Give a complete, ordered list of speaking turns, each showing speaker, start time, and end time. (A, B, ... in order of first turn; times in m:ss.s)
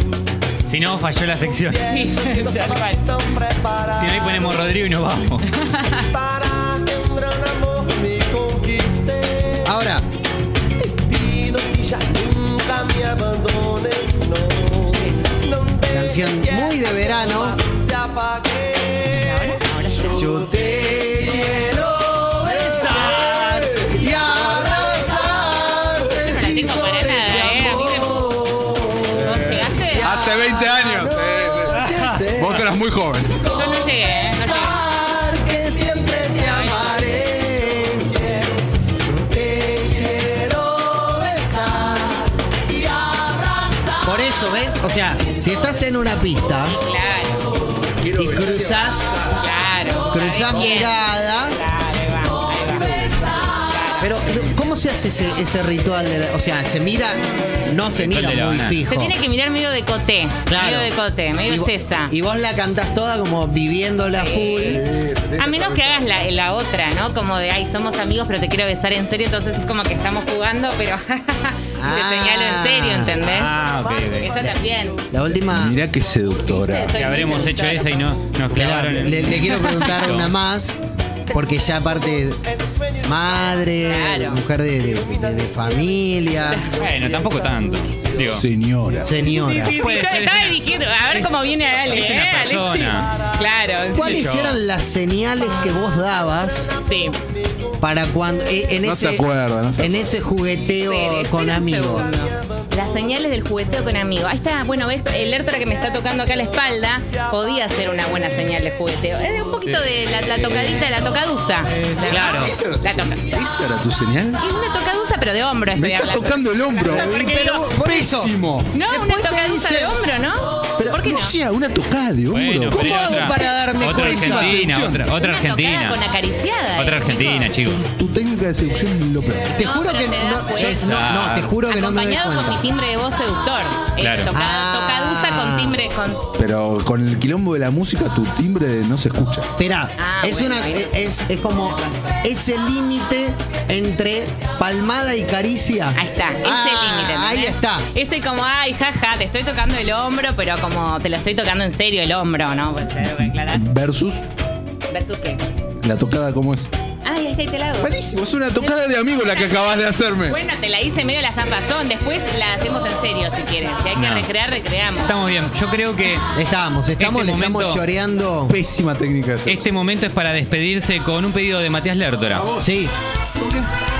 0:00.7-0:01.9 A
0:01.9-0:03.1 B
0:02.2-0:02.6 C
0:03.8-0:05.5 A
0:05.6-0:06.1 B
0:06.2-0:09.6 C
0:09.6-0:10.0 D
0:11.0-0:14.8 C
0:14.8-0:15.2 B
0:15.9-0:17.6 D
0:17.6-0:19.0 C
0:19.1-0:20.2 B
0:20.1-0:32.7 D
0:26.2-0:28.2 B
0:29.2-0:30.0 B
0:30.0-0:33.4 E
0:31.7-0:32.2 A
0:33.5-0:34.8 B
0:34.4-0:38.2 D
0:39.0-0:42.3 D
0:43.9-0:46.8 D
0:46.8-0:47.6 B
0:48.0-0:49.0 E
0:48.0-0:49.1 D
0:49.3-0:54.1 B
0:50.1-0:51.6 D
0:54.0-0:59.2 D
0:57.9-0:58.8 A
0:58.9-1:02.1 B
1:00.5-1:00.9 D
1:01.4-1:04.8 D
1:04.1-1:04.8 B
1:04.6-1:06.1 E
1:05.4-1:13.5 B
1:11.8-1:13.2 D
1:13.2-1:14.4 A
1:14.2-1:15.0 B
1:15.1-1:15.8 D
1:15.4-1:17.0 E
1:16.4-1:17.9 B
1:16.9-1:20.3 A
1:18.5-1:20.8 D
1:21.3-1:22.4 D
1:23.0-1:26.7 D
1:23.9-1:24.4 B
1:26.5-1:28.4 A
1:28.2-1:29.1 E
1:29.0-1:29.8 D
1:29.3-1:30.6 A
1:29.8-1:34.2 B
1:31.9-1:33.1 A
1:33.9-1:36.7 D
1:34.0-1:34.6 A
1:36.8-1:37.2 B
1:37.8-1:39.3 D
1:38.8-1:40.0 E
1:39.8-1:42.0 D
1:40.8-1:53.2 B
1:49.6-1:50.9 A
1:51.9-1:54.4 E
1:52.0-1:52.5 D
1:54.4-1:57.6 B
1:55.7-1:58.7 E
1:56.8-1:59.9 D
1:58.7-2:01.4 B
2:00.8-2:05.1 E
2:02.3-2:06.0 A
2:02.7-2:04.7 D
2:05.1-2:07.5 B
2:06.8-2:07.8 A
2:07.6-2:09.5 E
2:09.5-2:12.6 D
2:09.5-2:11.1 B
2:10.6-2:11.6 A
2:11.6-2:16.2 B
2:14.0-2:14.3 A
2:14.3-2:15.8 D
2:16.4-2:19.5 E
2:19.6-2:27.9 D
2:20.0-2:21.0 B
2:25.9-2:33.6 B
2:33.5-2:34.2 E
2:34.9-2:35.4 B
2:35.8-2:36.7 E
2:37.0-2:38.0 B
2:37.8-2:40.4 E
2:38.6-2:45.1 B
2:44.0-2:44.3 A
2:45.0-2:46.2 A
2:46.3-2:48.6 D
2:47.0-2:47.8 A
2:48.5-2:49.6 E
2:49.4-2:52.5 A
2:52.3-2:52.7 E
2:52.6-2:52.9 D
2:53.4-2:53.7 E